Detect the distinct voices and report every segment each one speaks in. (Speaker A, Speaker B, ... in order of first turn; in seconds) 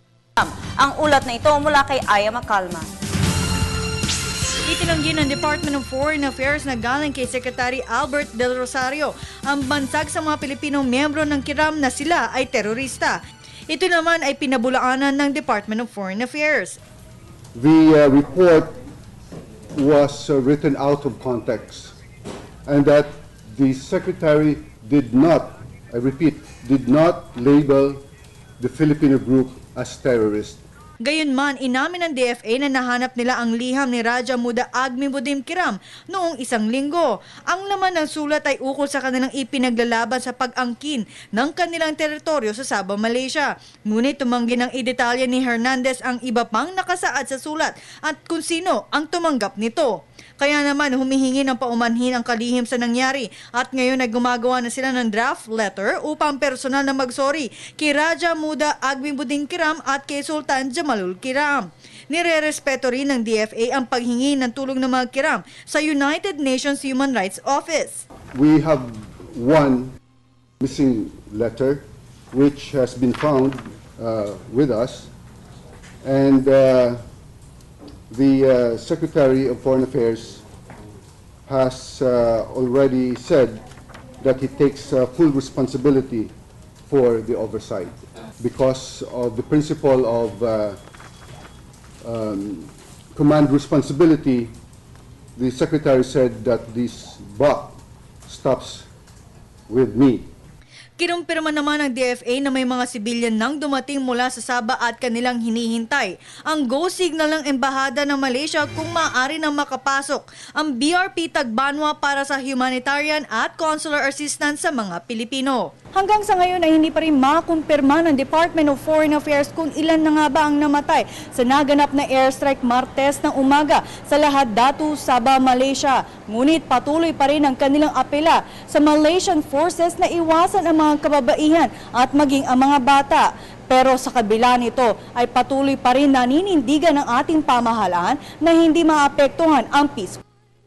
Speaker A: 0.4-2.9
Speaker B: 4.6-13.1, 13.7-16.8, 31.0-68.0, 101.0-140.2
Speaker C: 17.5-18.7, 19.7-21.9, 22.6-28.0, 28.6-30.6, 68.3-69.9, 70.6-75.1, 76.0-77.0, 78.1-80.4, 81.5-83.6, 84.2-86.3, 86.9-90.8, 92.0-94.5, 95.3-98.9, 99.7-100.3